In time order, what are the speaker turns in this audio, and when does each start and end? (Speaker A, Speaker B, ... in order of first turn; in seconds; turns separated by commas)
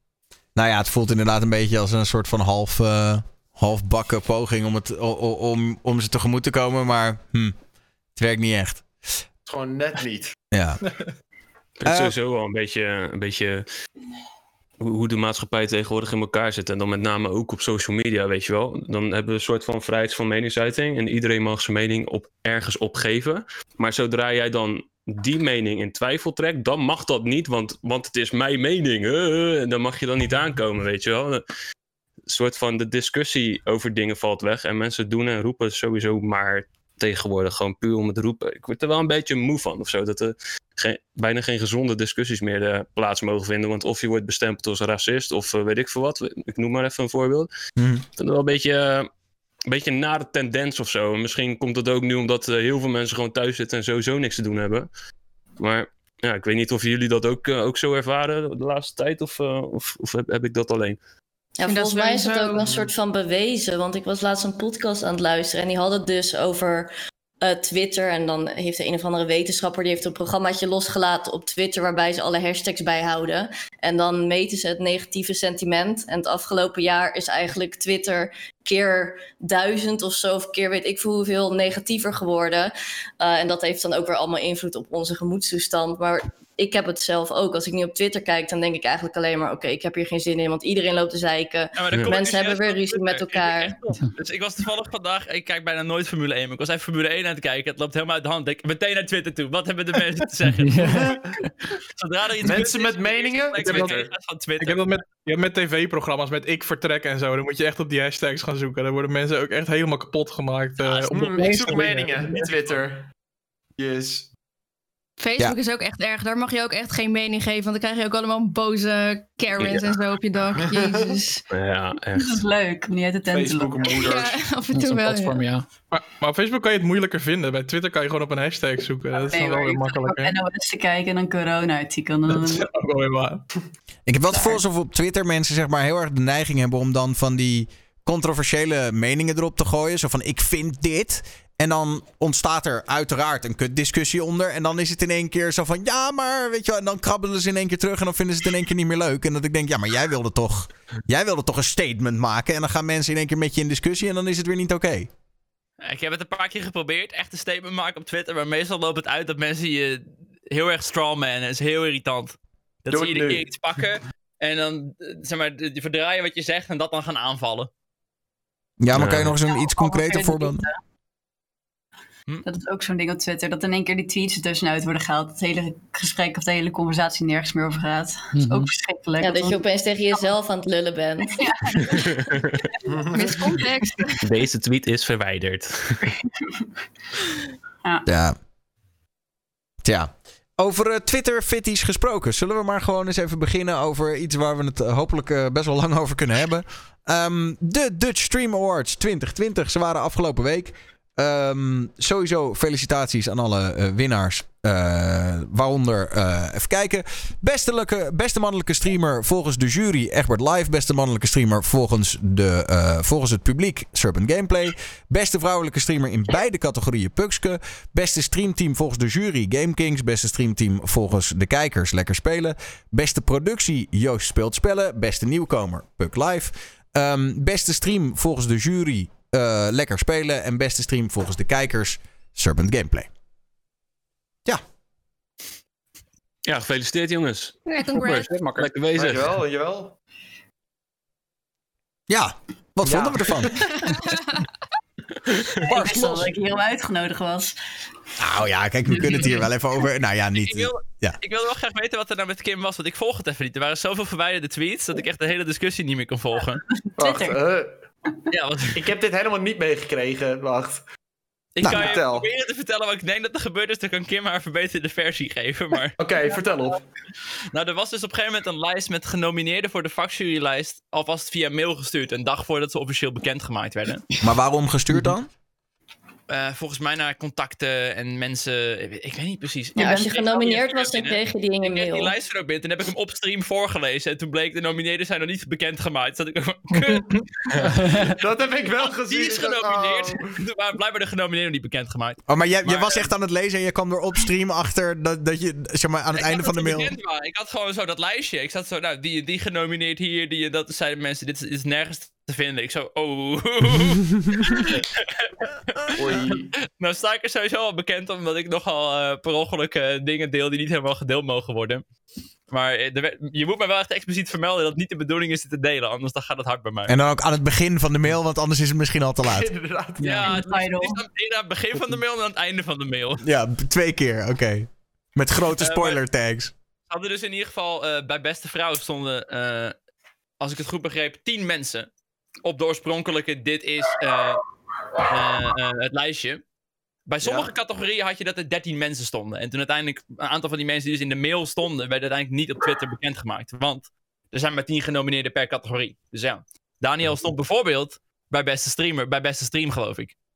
Speaker A: 0.6-7.5, Speaker A: 8.2-8.9, Speaker B: 9.4-10.4, Speaker A: 10.5-10.8, Speaker C: 11.8-13.7, Speaker A: 11.8-12.2, Speaker C: 14.8-31.4, Speaker C: 32.3-47.5, Speaker A: 47.8-48.0, Speaker C: 48.2-49.1, Speaker C: 49.7-54.9, Speaker C: 55.6-61.0, Speaker D: 61.6-66.9, Speaker E: 61.6-62.7, Speaker B: 62.6-62.9, Speaker D: 67.4-93.8, Speaker F: 91.8-101.1, Speaker G: 100.6-101.5, Speaker F: 102.0-104.9, Speaker B: 102.4-104.1, Speaker H: 103.6-104.1, Speaker H: 104.6-112.4, Speaker F: 110.8-111.2, Speaker B: 111.1-113.1, Speaker G: 111.3-112.5, Speaker B: 113.8-114.3, Speaker I: 115.2-121.4, Speaker C: 119.6-119.9, Speaker B: 120.6-121.2, Speaker C: 121.5-122.4, Speaker E: 122.1-123.9, Speaker B: 123.3-124.4, Speaker I: 123.9-125.4, Speaker G: 124.7-125.7, Speaker H: 125.9-130.3, Speaker E: 129.2-132.6, Speaker H: 132.3-133.4, Speaker A: 134.1-155.1, Speaker F: 155.8-167.7, Speaker B: 162.9-163.5, Speaker A: 168.8-170.6, Speaker C: 168.9-169.4, Speaker E: 169.5-170.8, Speaker E: 172.4-179.6, Speaker G: 178.3-178.7, Speaker D: 179.2-181.4, Speaker E: 181.4-182.2, Speaker B: 182.9-183.6, Speaker I: 183.1-184.2, Speaker C: 184.2-186.0, Speaker E: 186.0-186.7, Speaker A: 188.1-188.4, Speaker A: 189.8-233.1, Speaker C: 236.4-239.4, Speaker I: 237.7-238.3, Speaker G: 238.3-238.7, Speaker B: 238.9-239.9, Speaker A: 242.1-243.8, Speaker B: 242.8-243.5, Speaker I: 243.8-244.4, Speaker E: 245.6-247.6, Speaker A: 245.7-246.3, Speaker A: 248.2-251.2, Speaker E: 248.9-249.4, Speaker F: 250.4-256.6, Speaker E: 256.7-257.4, Speaker B: 257.0-257.8, Speaker F: 258.3-258.8, Speaker B: 258.7-260.8, Speaker F: 261.6-266.3, Speaker B: 261.6-262.3, Speaker B: 266.0-266.9, Speaker F: 267.5-274.1, Speaker A: 274.2-275.3, Speaker F: 276.3-287.7, Speaker D: 279.8-282.1, Speaker H: 286.7-287.3, Speaker G: 287.7-288.1, Speaker B: 288.1-290.4, Speaker F: 288.9-293.1, Speaker A: 292.3-296.9, Speaker F: 296.2-311.9, Speaker B: 305.9-306.5, Speaker F: 312.5-316.9, Speaker A: 316.9-319.5, Speaker B: 319.2-320.2, Speaker G: 320.0-320.4, Speaker F: 320.0-323.2, Speaker E: 320.3-321.0, Speaker A: 323.2-326.5, Speaker F: 325.6-326.0, Speaker F: 326.9-329.7, Speaker F: 330.4-331.9, Speaker F: 332.4-334.4, Speaker F: 335.0-336.4, Speaker F: 337.1-350.1, Speaker B: 337.2-337.5